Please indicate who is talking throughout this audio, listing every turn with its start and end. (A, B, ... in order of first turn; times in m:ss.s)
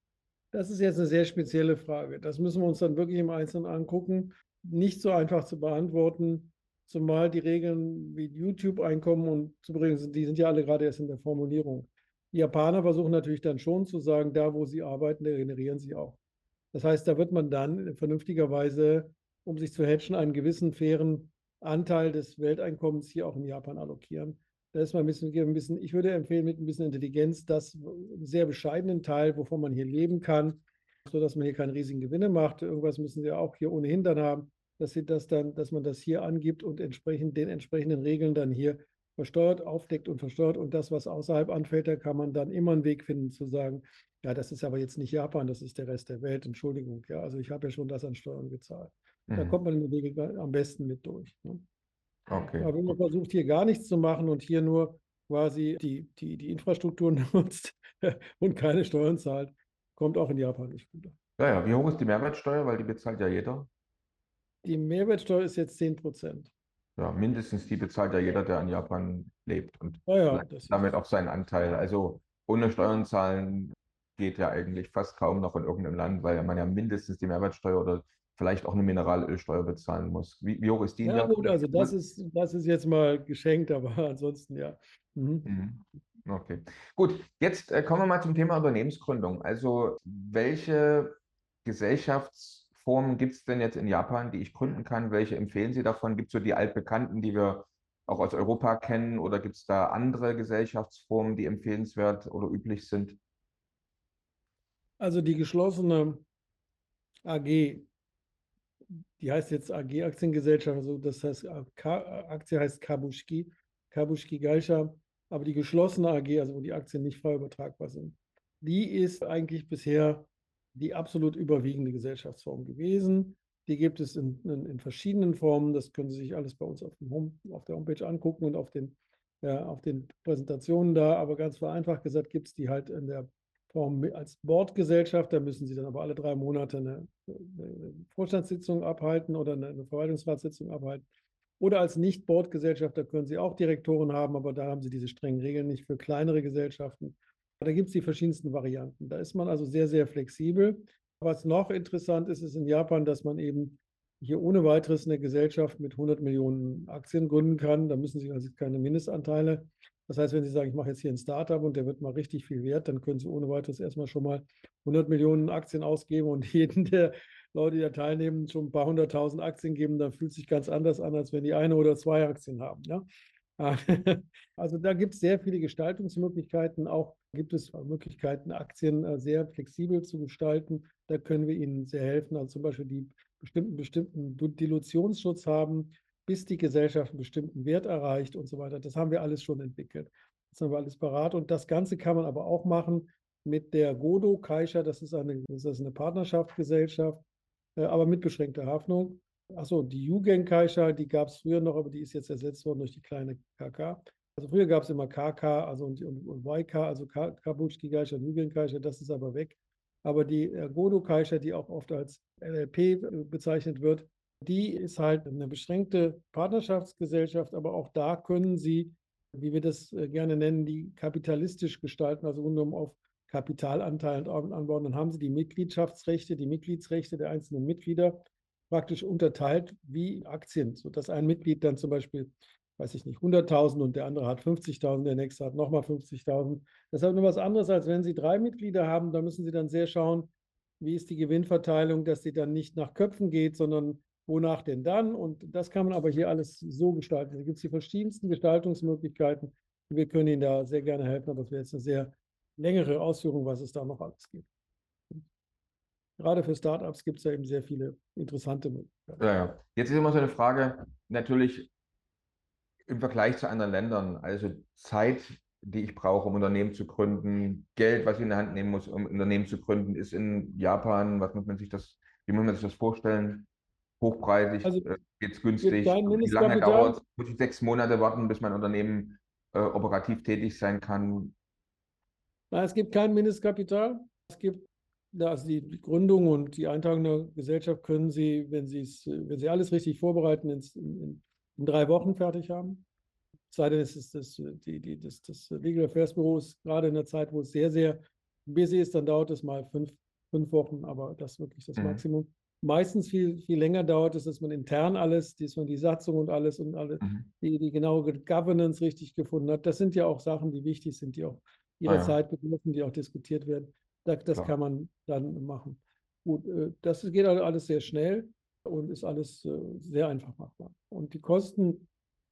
0:00.5-0:16.2 A
0:16.7-0:51.6 A
0:49.3-0:49.6 B
0:52.3-0:53.0 B
0:52.6-1:01.2 A
1:01.4-1:03.7 B
1:04.6-1:06.5 A
1:07.0-1:21.9 B
1:10.1-1:10.8 A
1:21.0-1:25.5 A
1:25.4-1:43.2 B
1:45.0-1:46.2 A
1:47.2-1:47.9 A
1:49.2-2:21.0 A
2:21.6-2:53.0 A
2:53.6-3:17.2 A
3:17.8-4:14.5 A
4:16.2-4:19.2 A
4:19.2-4:21.7 B
4:22.9-4:33.5 B
4:34.0-4:41.3 B
4:35.6-4:37.0 A
4:42.5-4:52.8 A
4:53.5-5:21.9 A
5:01.8-5:02.0 B
5:07.0-5:07.3 B
5:11.9-5:12.2 B